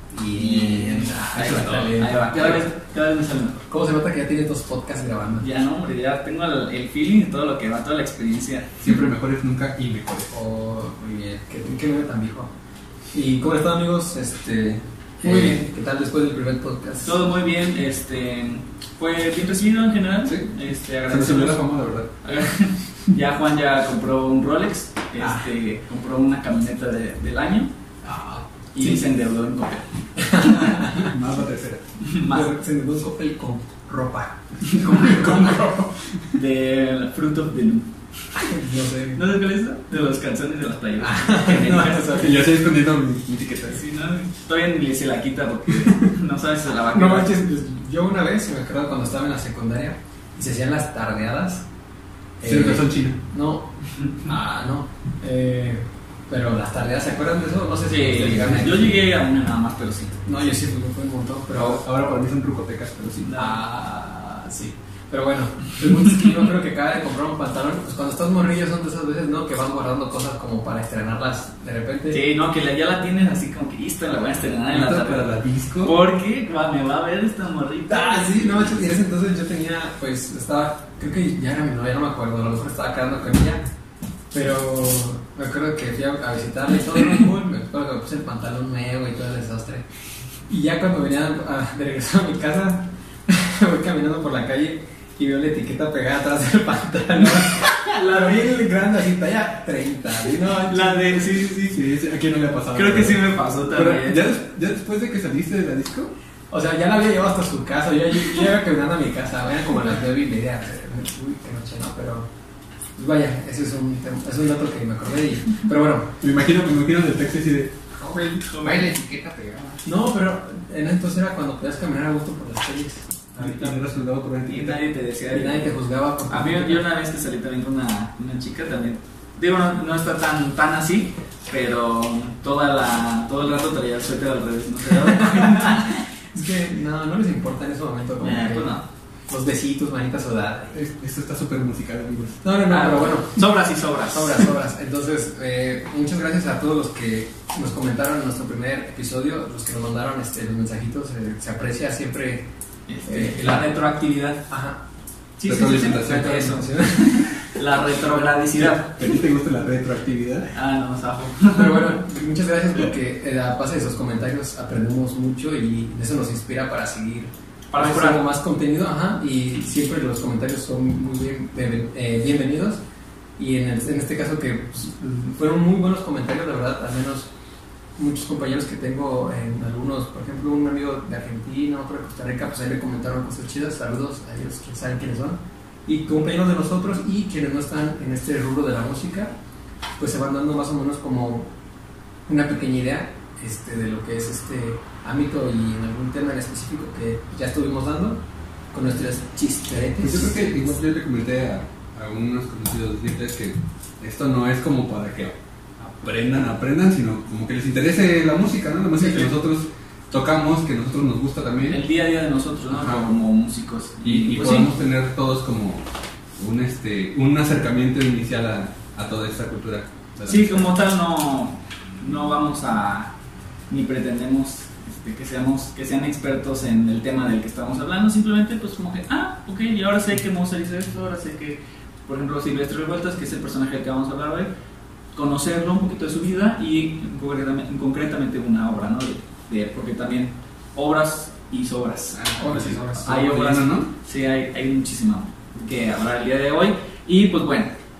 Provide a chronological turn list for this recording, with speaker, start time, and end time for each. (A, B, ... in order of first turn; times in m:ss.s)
0:00.1-0:02.7 A
0:00.4-0:03.7 B
0:00.4-0:02.0 C
0:03.7-0:05.5 A
0:05.4-0:08.8 B
0:08.8-0:10.3 C
0:10.3-0:12.5 A
0:13.1-0:17.2 A
0:15.2-0:15.6 B
0:17.0-0:21.6 B
0:21.0-0:22.1 C
0:22.2-0:27.7 B
0:28.0-0:29.0 A
0:28.7-0:30.9 B
0:30.2-0:31.1 A
0:30.7-0:31.8 C
0:32.0-0:32.5 B
0:32.3-0:35.9 A
0:34.8-0:35.7 C
0:34.9-0:35.4 B
0:36.3-0:37.9 B
0:38.4-0:39.2 A
0:39.2-0:42.3 B
0:41.0-0:42.5 A
0:42.2-0:43.8 C
0:43.7-0:47.4 B
0:46.9-0:51.7 A
0:52.4-0:59.0 A
0:52.4-0:53.2 C
0:57.9-1:00.2 B
1:00.3-1:01.8 A
1:01.6-1:03.3 C
1:03.2-1:03.6 B
1:03.3-1:12.2 A
1:12.1-1:18.8 B
1:14.7-1:16.0 C
1:17.9-1:23.6 A
1:24.3-1:29.9 A
1:30.5-1:41.4 A
1:37.4-1:38.5 B
1:40.6-1:41.8 B
1:41.7-1:46.1 C
1:42.7-1:44.2 B
1:46.5-1:52.3 A
1:53.0-1:56.2 A
1:56.2-1:59.8 C
1:58.4-1:58.9 B
1:59.8-2:04.0 A
2:03.4-2:04.8 C
2:04.5-2:05.7 B
2:05.3-2:06.8 A
2:06.3-2:16.0 B
2:15.0-2:18.7 A
2:18.2-2:18.9 B
2:19.3-2:20.8 A
2:20.7-2:22.4 C
2:22.4-2:32.5 A
2:22.7-2:24.5 B
2:32.9-2:34.5 B
2:33.0-2:33.8 A
2:34.5-2:34.8 A
2:35.4-2:39.2 B
2:35.4-2:36.6 C
2:36.0-2:37.4 A
2:38.6-2:40.5 C
2:40.5-2:42.0 B
2:41.5-2:52.8 A
2:47.7-2:48.3 B
2:53.4-2:57.3 A
2:58.0-3:09.4 A
3:10.0-3:11.5 A
3:12.3-3:20.7 A
3:20.0-3:31.8 C
3:29.0-3:29.3 A
3:31.7-3:34.7 B
3:32.7-3:33.1 C
3:34.0-3:40.7 C
3:40.3-3:43.1 B
3:43.7-3:54.5 B
3:55.1-4:07.8 B
4:02.1-4:03.9 C
4:02.4-4:03.3 A